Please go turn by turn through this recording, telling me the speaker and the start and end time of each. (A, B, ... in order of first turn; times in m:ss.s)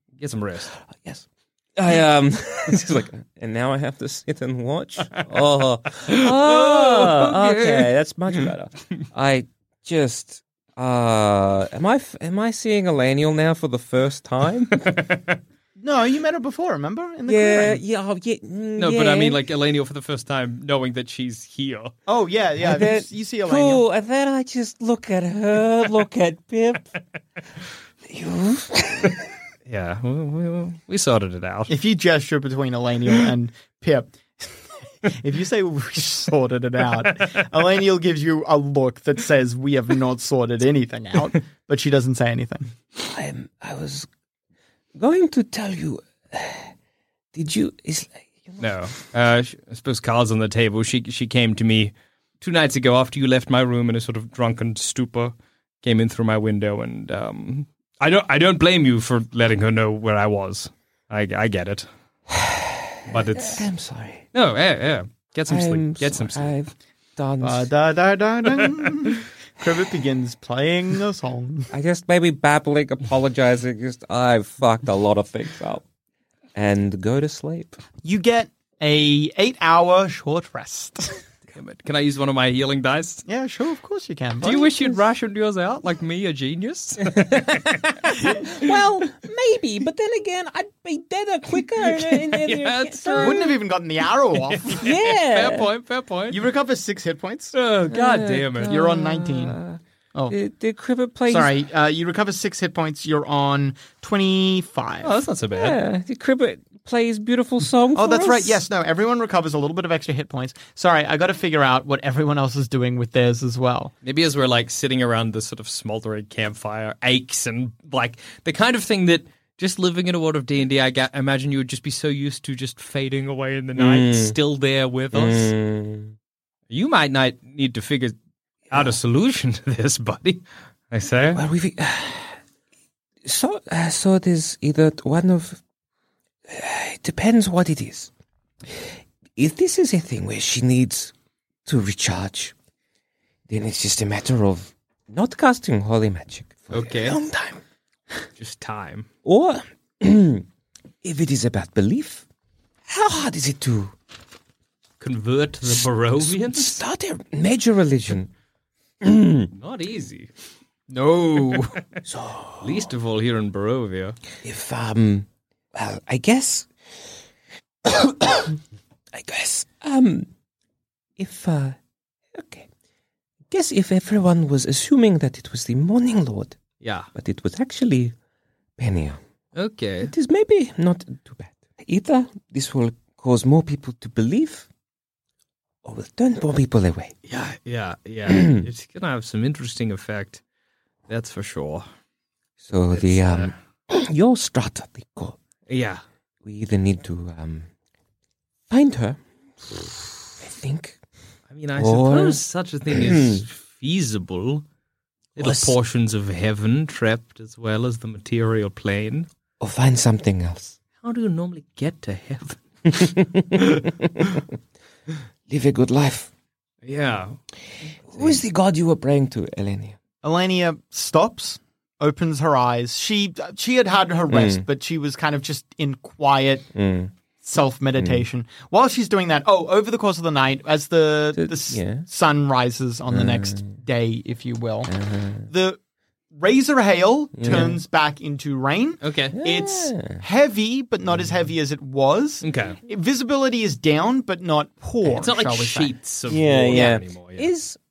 0:00.2-0:00.7 A
0:00.9-0:14.9 B
0:06.1-0:08.4 A
0:14.8-0:15.4 A
0:15.8-0:17.8 C
0:17.2-0:19.4 B
0:18.8-0:21.9 A
0:22.1-0:23.8 C
0:22.6-0:26.9 B
0:28.0-0:29.2 B
0:29.7-0:31.7 A
0:31.7-0:42.7 C
0:43.0-0:44.1 B
0:45.0-0:46.7 B
0:47.3-0:48.7 B
0:48.6-1:01.9 A
1:02.3-1:04.2 B
1:03.1-1:03.7 A
1:04.3-1:06.5 A
1:05.5-1:07.7 B
1:07.4-1:11.7 C
1:11.7-1:15.8 B
1:16.5-1:17.8 B
1:18.0-1:21.2 C
1:21.5-1:23.2 A
1:23.3-1:25.0 C
1:24.4-1:27.8 A
1:27.1-1:33.6 B
1:31.8-1:33.5 A
1:33.2-1:34.9 C
1:34.4-1:36.5 A
1:34.8-1:35.7 B
1:36.3-1:37.5 C
1:37.5-1:38.9 A
1:37.9-1:41.5 B
1:38.6-1:39.6 C
1:41.3-1:45.2 C
1:45.0-1:45.8 A
1:45.5-1:48.6 B
1:47.9-1:53.9 C
1:54.0-2:05.5 A
2:03.7-2:04.4 B
2:05.1-2:06.2 B
2:06.7-2:08.1 A
2:08.7-2:11.4 A
2:11.3-2:12.4 B
2:13.2-2:15.6 B
2:16.5-2:18.1 B
2:19.4-2:21.1 B
2:21.6-2:22.5 B
2:23.5-2:27.6 B
2:26.7-2:27.2 A
2:28.4-2:29.1 A
2:29.2-2:30.5 B
2:31.0-2:32.2 B
2:32.9-2:33.9 B
2:35.0-2:36.8 A
2:36.2-2:38.3 B
2:39.0-2:39.5 B
2:39.5-2:40.3 A
2:40.9-2:41.8 C
2:42.0-2:42.9 B
2:42.6-2:44.2 A
2:44.4-2:46.7 B
2:47.8-2:48.6 B
2:49.1-2:50.3 B
2:51.2-2:51.8 B
2:52.3-2:52.7 B
2:53.5-2:56.6 B
2:56.8-2:57.1 A
2:57.1-2:58.1 B
2:58.8-2:59.2 B
2:59.5-3:00.1 A
3:00.0-3:04.7 B
3:05.8-3:07.2 B
3:07.3-3:10.4 A
3:08.3-3:08.7 B
3:11.1-3:11.8 A
3:12.6-3:15.4 B
3:12.9-3:13.5 A
3:15.7-3:16.0 A
3:16.4-3:17.7 B
3:18.7-3:21.0 B
3:21.5-3:24.6 A
3:21.7-3:23.4 B
3:25.4-3:29.3 A
3:25.4-3:25.8 B
3:29.6-3:30.8 B
3:31.0-3:33.1 A
3:32.9-3:34.4 B
3:33.6-3:34.4 A
3:35.5-3:36.3 B
3:36.8-3:37.4 A
3:37.9-3:38.4 A
3:38.1-3:40.0 B
3:40.2-3:46.7 C
3:44.3-3:44.6 B
3:46.7-3:47.1 B
3:47.4-3:54.9 C
3:48.0-3:48.2 B
3:51.3-3:52.1 B
3:53.1-3:53.8 B
3:54.9-3:55.5 B
3:55.5-3:55.8 C
3:56.3-4:05.9 C
3:57.4-3:57.8 B
3:57.5-3:57.7 A
3:59.0-3:59.4 A
3:59.3-4:00.2 B
4:02.4-4:02.8 A
4:05.0-4:07.5 A
4:06.3-4:07.8 B
4:06.7-4:07.0 C